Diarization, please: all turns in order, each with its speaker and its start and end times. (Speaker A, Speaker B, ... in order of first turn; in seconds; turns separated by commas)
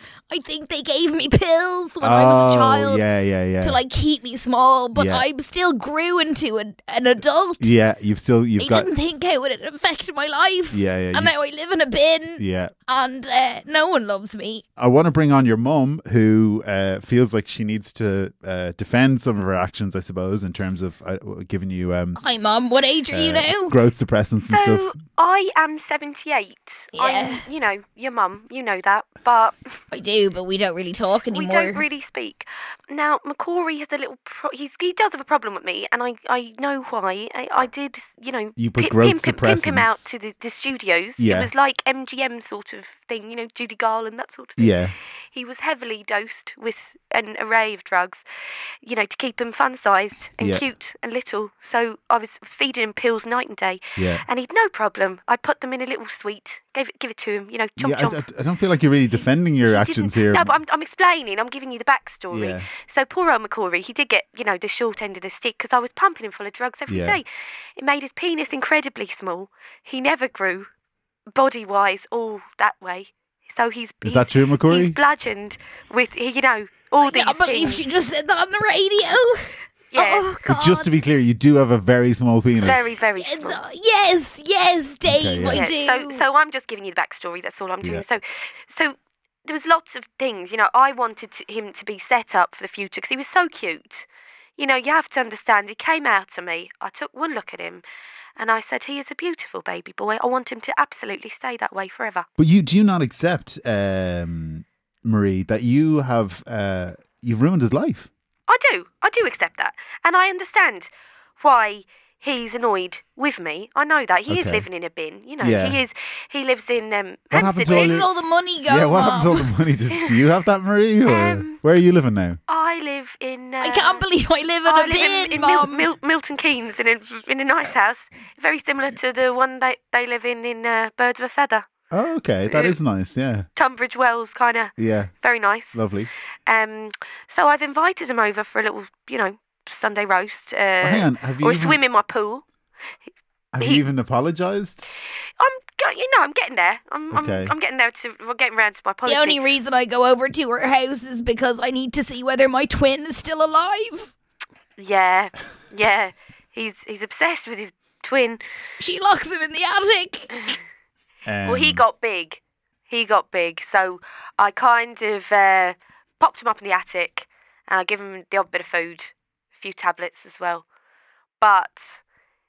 Speaker A: 0.3-3.0, Speaker B: 2.0-3.8, Speaker A: 3.6-7.7, Speaker B: 5.0-5.2, Speaker B: 7.6-8.9, Speaker A: 8.6-14.7, Speaker B: 10.7-11.3, Speaker B: 12.4-12.7, Speaker B: 14.8-22.2, Speaker A: 22.2-23.8, Speaker B: 23.1-24.9, Speaker C: 24.5-29.8, Speaker A: 27.0-27.4, Speaker A: 29.9-31.8, Speaker C: 31.3-48.2, Speaker B: 38.6-40.0, Speaker B: 41.2-41.5, Speaker B: 44.6-45.0, Speaker C: 48.8-58.2, Speaker B: 54.0-54.2, Speaker B: 57.8-60.6, Speaker C: 59.6-70.7, Speaker B: 62.3-62.7, Speaker B: 66.9-67.2, Speaker C: 71.3-77.8, Speaker B: 74.0-75.0, Speaker A: 77.0-80.9, Speaker C: 79.9-80.3, Speaker B: 80.5-82.9, Speaker C: 82.6-83.6, Speaker A: 83.2-86.2, Speaker B: 85.0-85.7, Speaker C: 85.5-97.8, Speaker C: 98.4-102.3, Speaker B: 102.4-108.1, Speaker C: 108.5-118.1, Speaker B: 114.3-114.7, Speaker B: 115.4-115.8, Speaker B: 117.3-118.1, Speaker A: 117.6-119.5, Speaker B: 118.7-122.4, Speaker C: 121.0-121.6, Speaker C: 122.5-124.0, Speaker A: 123.6-125.9, Speaker C: 124.7-131.7, Speaker B: 131.9-133.5, Speaker C: 132.5-132.8, Speaker C: 133.6-135.8, Speaker B: 134.8-135.1, Speaker B: 135.7-136.1, Speaker C: 136.5-142.4, Speaker B: 140.8-141.8, Speaker B: 143.5-144.9, Speaker C: 145.4-149.4, Speaker B: 147.1-147.5, Speaker A: 149.1-154.1, Speaker C: 154.8-158.4, Speaker A: 158.8-160.3, Speaker B: 161.3-161.8, Speaker C: 161.4-170.7, Speaker C: 171.4-172.0